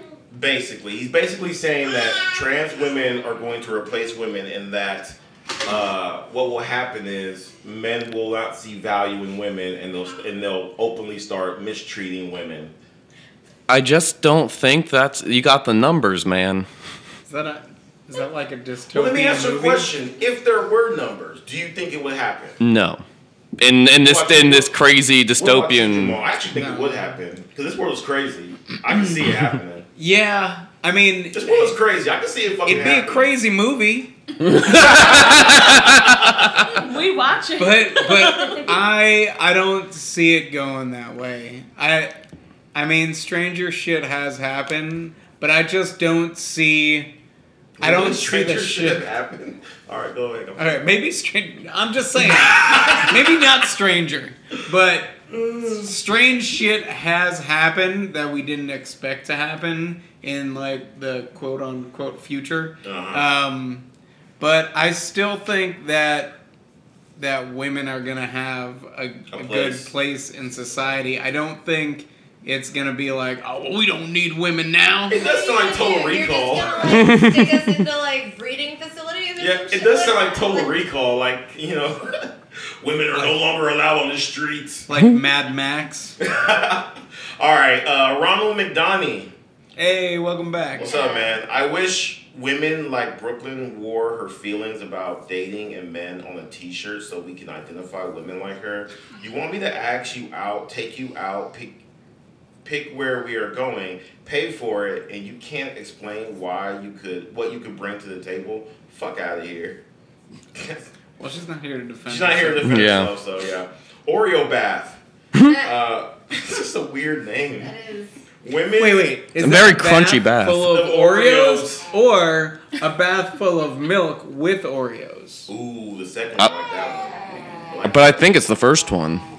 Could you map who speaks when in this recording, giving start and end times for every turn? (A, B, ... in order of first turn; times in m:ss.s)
0:00.3-0:12.7 A
0:13.7-0:16.7 B
0:17.3-0:19.9 C
0:18.9-0:22.6 A
0:22.6-0:23.0 B
0:23.6-0:26.2 B
0:24.0-0:24.7 A
0:25.3-0:29.8 A
0:26.5-0:27.1 C
0:30.0-0:31.7 C
0:31.3-0:33.2 A
0:32.6-0:35.5 C
0:34.5-0:35.4 B
0:34.7-0:36.3 A
0:36.5-0:38.8 D
0:37.6-0:42.1 C
0:42.7-0:47.1 C
0:47.8-0:50.8 A
0:47.8-0:49.0 C
0:50.6-1:03.8 C
0:52.2-0:53.2 A
0:55.3-0:55.8 A
1:02.8-1:03.3 A
1:04.4-1:06.4 C
1:07.2-1:15.2 C
1:09.3-1:09.9 A
1:15.1-1:17.0 A
1:15.1-1:20.7 E
1:16.9-1:17.8 B
1:19.4-1:24.9 A
1:24.9-1:26.2 C
1:26.2-1:29.3 A
1:29.8-1:30.9 C
1:30.7-1:41.7 A
1:30.8-1:31.4 E
1:42.6-1:49.8 A
1:50.5-1:50.9 A
1:51.2-1:52.9 C
1:52.0-1:55.0 A
1:52.6-1:53.1 B
1:55.4-1:55.7 E
1:55.6-1:57.7 A
1:57.6-1:58.1 E
1:58.4-1:59.2 A
1:58.8-2:05.5 C
1:59.4-2:00.7 B
2:00.6-2:01.8 A
2:05.5-2:08.2 A
2:07.8-2:09.2 B